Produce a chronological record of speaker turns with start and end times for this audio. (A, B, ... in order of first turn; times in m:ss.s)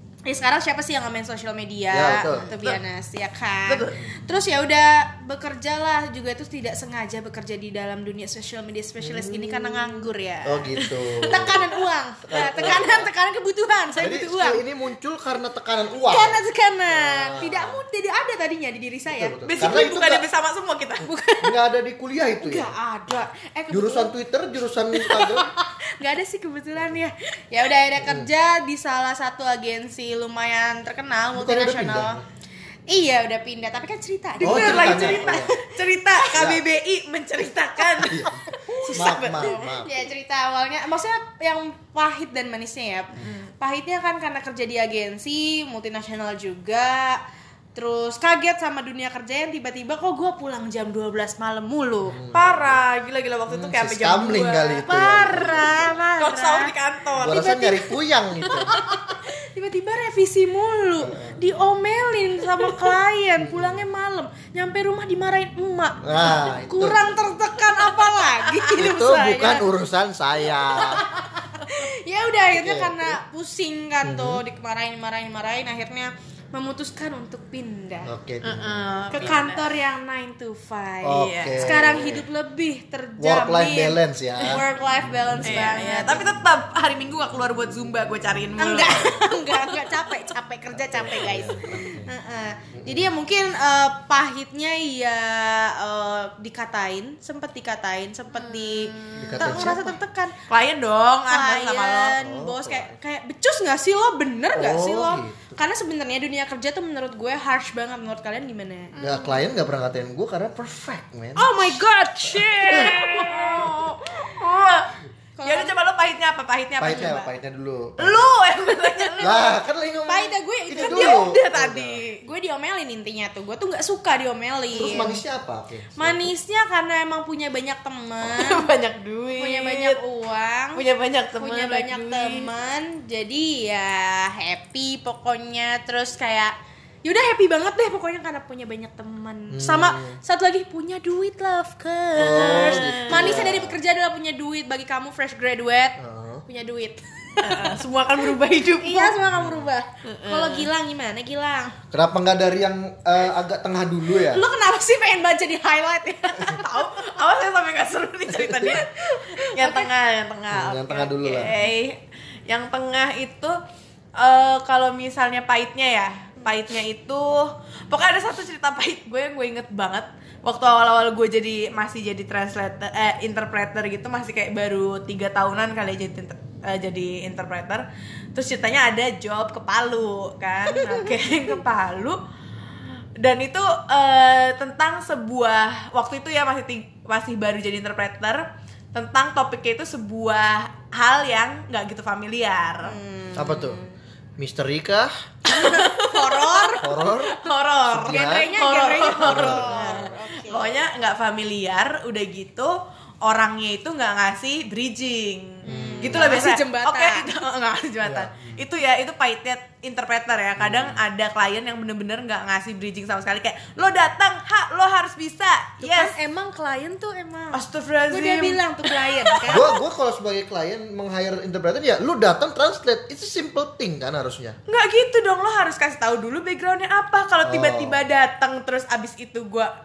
0:00.3-0:10.8 A
0:01.9-0:02.7 B
0:02.2-0:02.8 C
0:03.7-0:04.0 C
0:03.9-0:04.3 B
0:09.0-0:11.6 B
0:10.8-0:11.8 C
0:11.3-0:14.6 A
0:12.2-0:13.1 B
0:12.3-0:13.0 C
0:14.0-0:17.8 B
0:16.0-0:19.4 A
0:19.1-0:20.2 B
0:19.4-0:21.1 C
0:21.0-0:21.6 A
0:21.4-0:23.1 B
0:22.4-0:24.1 A
0:23.7-0:25.5 B
0:24.9-0:32.2 A
0:28.0-0:28.3 B
0:31.4-0:32.2 B
0:32.9-0:35.7 A
0:34.4-0:39.8 C
0:34.4-0:35.6 B
0:36.3-0:36.6 B
0:38.0-0:47.2 A
0:38.1-0:39.9 B
0:43.2-0:43.5 C
0:47.8-0:52.2 A
0:52.1-0:52.8 B
0:52.3-0:57.5 C
0:53.5-0:56.0 B
0:54.8-0:58.0 A
0:57.2-0:58.8 B
0:58.5-1:09.6 A
1:01.0-1:01.4 B
1:03.4-1:03.9 B
1:06.0-1:07.2 B
1:07.8-1:08.8 C
1:08.8-1:11.1 B
1:10.5-1:18.1 A
1:12.5-1:13.2 B
1:14.0-1:14.4 B
1:18.1-1:19.4 B
1:18.4-1:19.8 C
1:19.1-1:26.4 A
1:21.0-1:22.3 B
1:21.1-1:22.0 C
1:23.2-1:25.6 B
1:25.4-1:30.0 C
1:28.6-1:40.4 A
1:30.7-1:32.1 B
1:32.7-1:33.1 B
1:38.4-1:39.8 C
1:39.2-1:40.0 B
1:40.5-1:42.2 C
1:41.3-1:48.9 A
1:42.2-1:43.0 B
1:44.5-1:45.6 B
1:48.9-1:49.6 C
1:49.0-1:53.1 B
1:51.4-1:53.7 A
1:52.6-1:57.3 C
1:55.4-1:55.8 A
1:56.8-1:58.3 B
1:58.0-1:59.6 C
1:59.2-2:02.0 B
2:00.1-2:01.4 A
2:00.8-2:02.2 C
2:02.2-2:05.2 A
2:04.7-2:06.3 B
2:06.0-2:08.7 A
2:08.2-2:10.0 C
2:09.3-2:10.8 A
2:10.8-2:12.5 C
2:11.4-2:27.8 A
2:19.5-2:20.2 B
2:22.2-2:23.8 B
2:22.2-2:23.5 C
2:26.0-2:26.4 B
2:27.4-2:29.2 C
2:28.8-2:31.8 A
2:29.2-2:29.7 B
2:30.0-2:30.7 C
2:31.9-2:34.5 B
2:34.2-2:36.7 A
2:36.4-2:38.9 C
2:38.3-2:38.8 B
2:38.7-2:39.9 A
2:39.5-2:43.6 C
2:40.5-2:41.6 B
2:44.2-3:02.2 C
3:00.7-3:01.1 A
3:02.8-3:13.0 C
3:12.8-3:14.0 A
3:13.4-3:13.8 B
3:14.4-3:15.1 B
3:15.5-3:36.2 C
3:15.5-3:17.1 A
3:16.8-3:17.4 B
3:17.9-3:18.5 B
3:18.0-3:20.8 A
3:19.2-3:20.2 B
3:25.6-3:27.3 A
3:25.7-3:26.3 B
3:28.0-3:28.6 B
3:30.6-3:31.0 B
3:35.8-3:39.7 A
3:37.5-3:39.8 C
3:39.5-3:44.6 B
3:44.7-3:49.7 C
3:47.4-3:48.0 B